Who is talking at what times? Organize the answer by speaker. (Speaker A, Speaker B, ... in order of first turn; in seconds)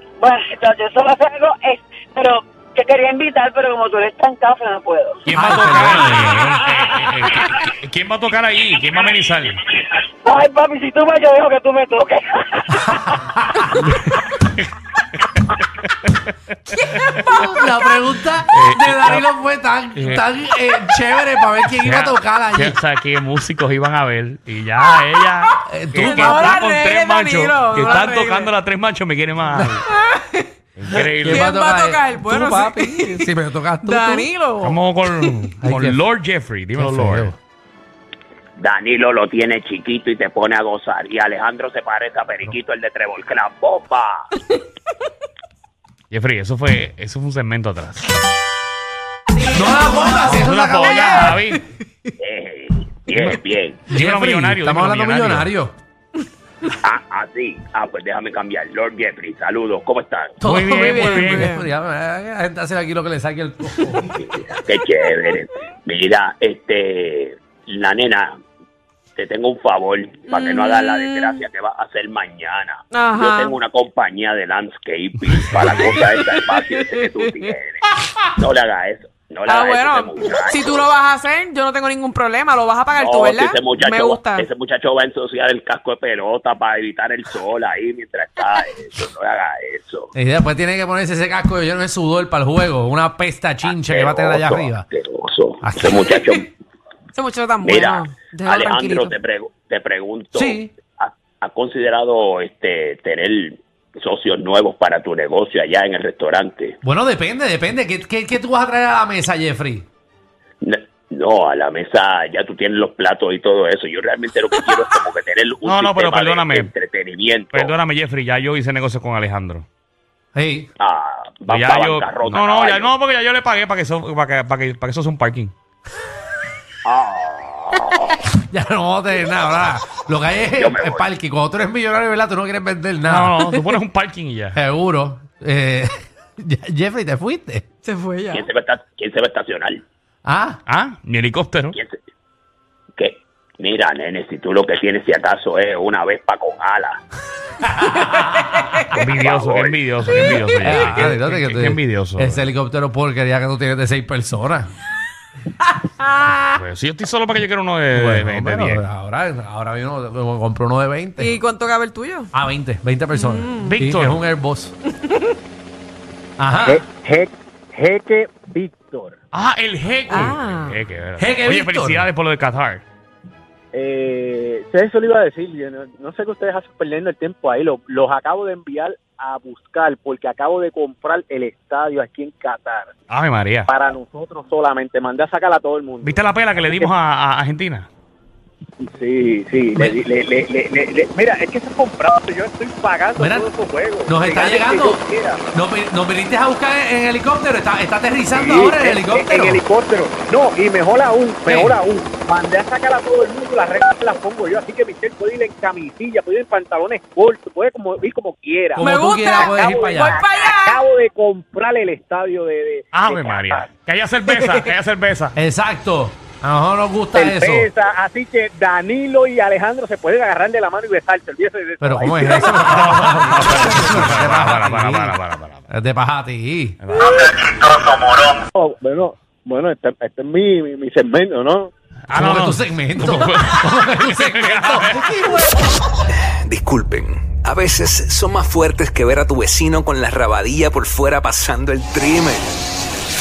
Speaker A: 0.2-5.2, 9.8-13.0
Speaker B: 5.2-9.6, 13.9-17.4, 18.5-19.2, 19.9-20.2, 21.8-29.8, 30.8-31.5, 34.6-37.3, 46.1-48.1, 50.4-51.6, 53.9-55.5, 60.4-61.5, 75.5-75.9, 115.6-116.7, 117.5-119.7, 121.5-125.5, 133.1-134.6, 140.7-141.8, 148.9-152.5, 156.6-158.8, 163.7-164.2, 169.3-172.8, 183.1-183.7, 186.0-187.9, 212.9-215.3, 222.6-225.6, 226.8-227.2, 232.1-235.3
Speaker C: 5.3-6.7, 12.8-13.8, 17.2-22.8, 25.6-26.6, 30.9-34.3, 35.6-36.0, 36.7-37.4, 49.4-51.4, 53.9-55.7, 60.4-64.0, 90.1-94.8, 95.6-96.0, 100.3-100.7, 106.8-109.8, 120.3-120.7, 128.4-133.4, 134.5-137.6, 140.2-140.6, 147.6-148.5, 150.6-154.7, 157.9-161.3, 162.3-164.7, 166.4-166.8, 171.2-172.1, 193.2-193.5, 194.0-195.0, 195.5-199.6, 201.4-201.8, 208.8-210.2, 215.3-217.7, 221.8-225.2, 225.7-226.8, 232.1-235.6
Speaker D: 26.0-28.5, 29.9-30.5, 31.2-35.5, 51.0-51.6, 60.7-61.6, 70.3-71.5, 72.9-73.6, 75.9-77.5, 79.5-84.5, 96.1-96.4, 97.1-99.2, 137.8-138.4, 148.0-148.9, 155.7-156.6, 161.2-162.3, 163.1-163.8, 164.9-165.4, 170.1-170.8, 208.8-210.8, 214.4-214.7
Speaker E: 38.6-44.2, 52.2-53.8, 56.8-60.3, 64.2-68.3, 69.2-77.8, 78.4-80.9, 83.0-90.1, 93.6-96.5, 97.6-106.8, 110.6-117.7, 120.8-122.9, 126.8-128.2, 130.6-131.1, 138.3-139.8, 143.0-147.0, 149.1-149.8
Speaker F: 166.6-169.1, 173.7-182.9, 183.7-186.9, 188.8-195.4, 198.3-213.7, 217.1-223.1, 228.5-231.7
Speaker G: 236.5-242.5